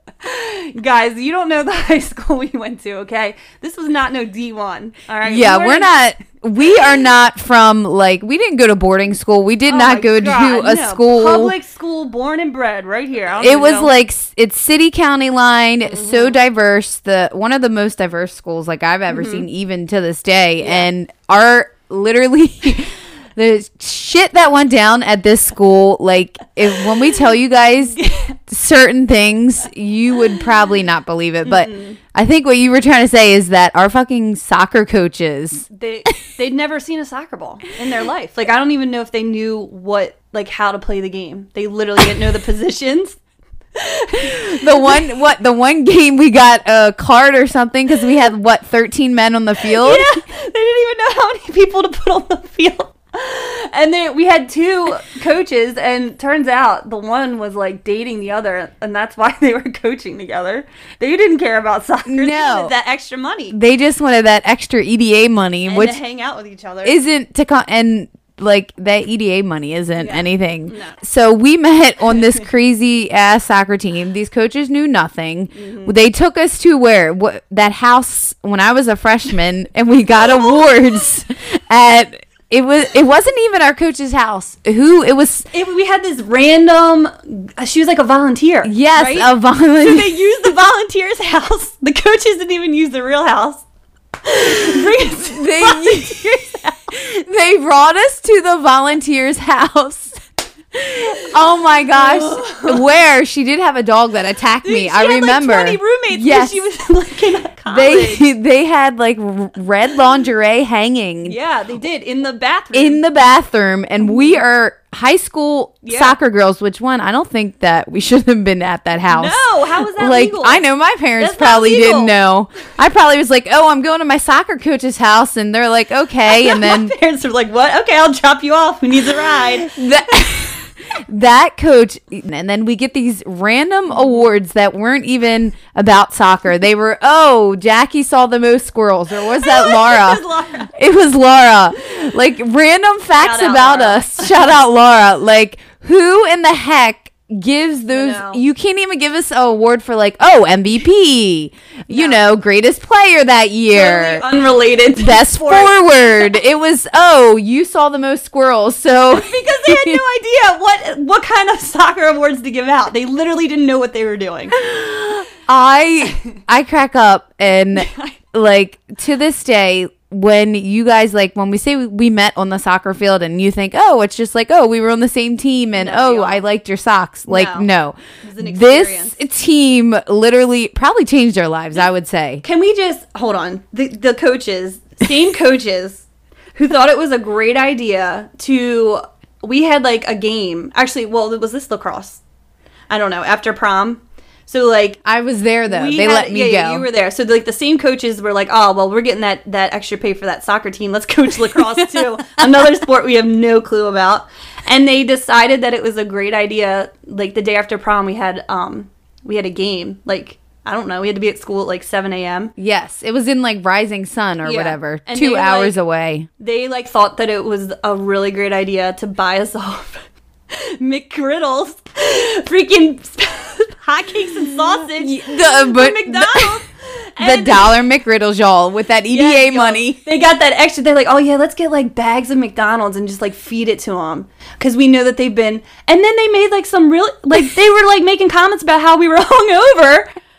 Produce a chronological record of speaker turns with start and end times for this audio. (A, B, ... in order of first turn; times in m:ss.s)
0:00.2-0:05.9 A
0:05.3-0:11.6 B
0:09.7-0:13.9 A
0:13.4-0:35.7 B
0:15.9-0:16.4 A
0:19.1-0:19.4 A
0:20.6-0:20.9 A
0:28.0-0:28.4 A
0:31.4-0:32.0 A
0:35.7-0:43.2 A
0:43.8-0:45.1 A
0:44.1-0:50.1 B
0:49.6-1:03.6 A
1:02.1-1:02.7 B
1:03.5-1:06.0 B
1:05.7-1:07.0 A
1:06.8-1:25.5 B
1:10.0-1:11.0 A
1:15.5-1:15.9 A
1:25.5-1:33.6 A
1:28.7-1:30.1 B
1:34.2-1:36.8 A
1:35.3-1:40.2 B
1:40.7-1:46.6 B
1:42.0-1:42.8 A
1:44.6-1:48.2 A
1:47.7-1:51.4 B
1:51.2-1:53.0 A
1:52.7-2:06.9 B
1:54.0-1:54.4 A
1:55.8-1:56.2 A
1:59.1-2:00.6 A
2:01.2-2:02.2 A
2:06.3-2:09.7 A
2:09.6-2:34.2 B
2:19.3-2:20.7 A
2:23.2-2:24.5 A
2:27.9-2:28.4 A
2:31.9-2:32.2 A
2:33.7-2:35.8 A
2:35.0-2:40.0 B
2:39.1-2:44.6 A
2:44.6-3:02.4 B
2:47.8-2:48.2 A
2:55.8-2:56.4 A
2:57.3-2:57.7 A
2:58.2-2:59.2 A
3:02.4-3:06.0 A
3:06.6-3:12.2 A
3:12.9-3:15.0 A
3:15.0-3:16.9 B
3:15.7-3:32.5 A
3:32.6-3:36.3 B
3:34.4-3:35.8 A
3:36.4-3:47.7 A
3:45.0-3:46.6 B
3:47.2-3:50.0 B
3:49.1-4:00.1 A